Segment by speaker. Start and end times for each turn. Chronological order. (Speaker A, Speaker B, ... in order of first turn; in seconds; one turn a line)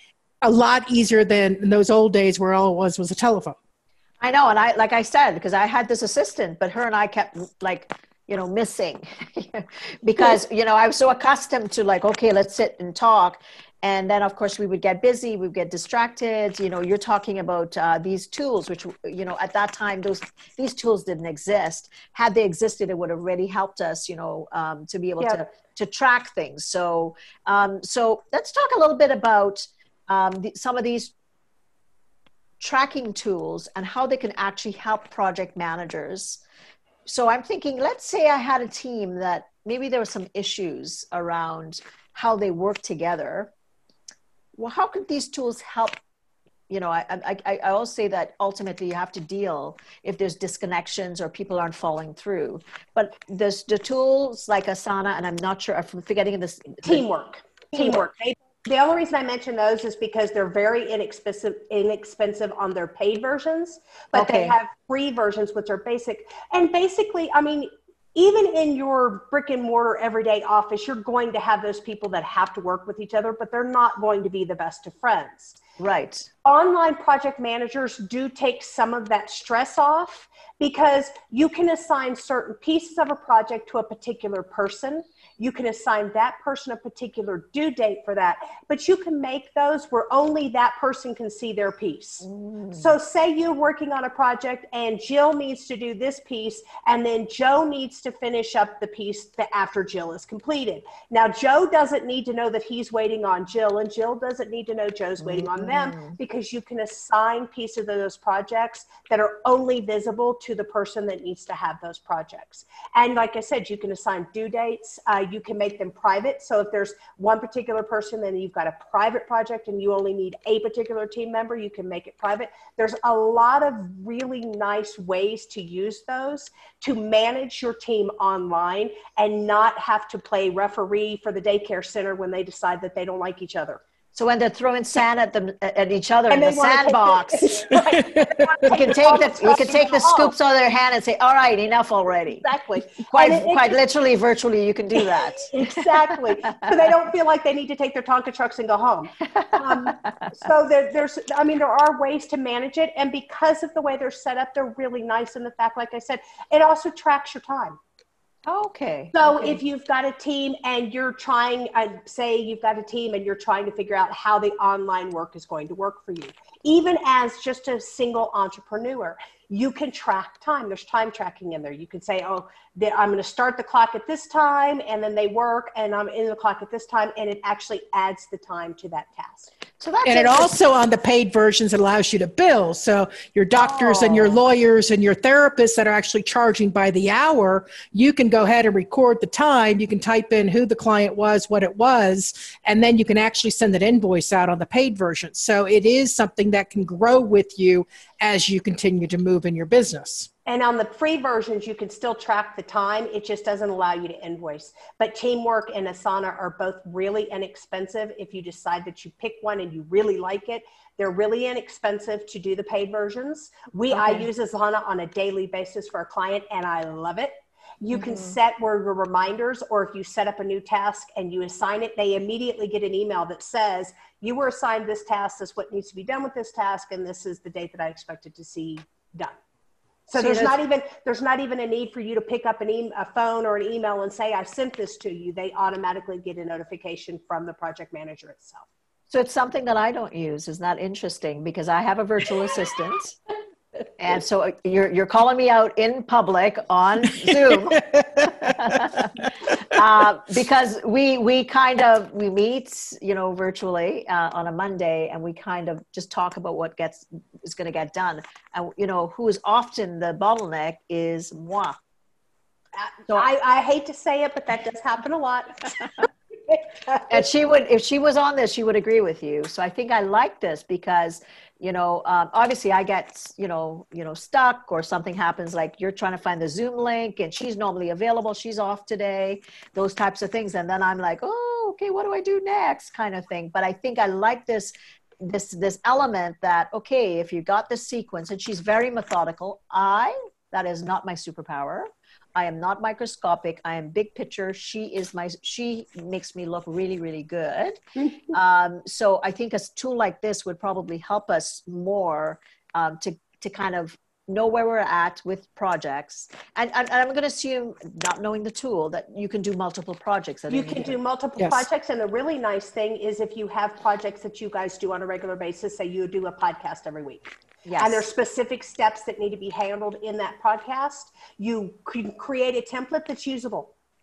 Speaker A: 0.4-3.5
Speaker B: 4.2-31.1
Speaker B: 32.6-36.4
Speaker B: 37.0-43.5
Speaker B: 44.5-46.0
Speaker B: 46.7-57.0
Speaker C: 56.8-75.6
Speaker B: 57.7-58.0
Speaker B: 64.1-64.5
Speaker B: 75.8-76.3
Speaker C: 76.4-133.8
Speaker B: 92.2-92.9
Speaker B: 105.2-106.2
Speaker B: 134.1-137.7
Speaker C: 136.3-140.3
Speaker A: 138.1-138.6
Speaker B: 138.7-142.4
Speaker C: 142.4-143.8
Speaker B: 143.1-145.8
Speaker C: 145.5-157.8
Speaker B: 149.4-150.2
Speaker B: 158.4-159.6
Speaker C: 159.1-179.5
Speaker B: 179.8-180.6
Speaker A: 180.0-200.3
Speaker B: 183.6-184.4
Speaker C: 200.4-229.4
Speaker B: 213.9-214.3
Speaker B: 217.9-218.3
Speaker C: 230.1-238.6
Speaker B: 230.1-230.6
Speaker B: 239.1-243.2
Speaker B: 244.0-261.8
Speaker A: 247.3-248.9
Speaker C: 262.8-265.7
Speaker B: 267.1-311.0
Speaker C: 310.5-323.7
Speaker A: 311.4-311.6
Speaker B: 317.6-318.1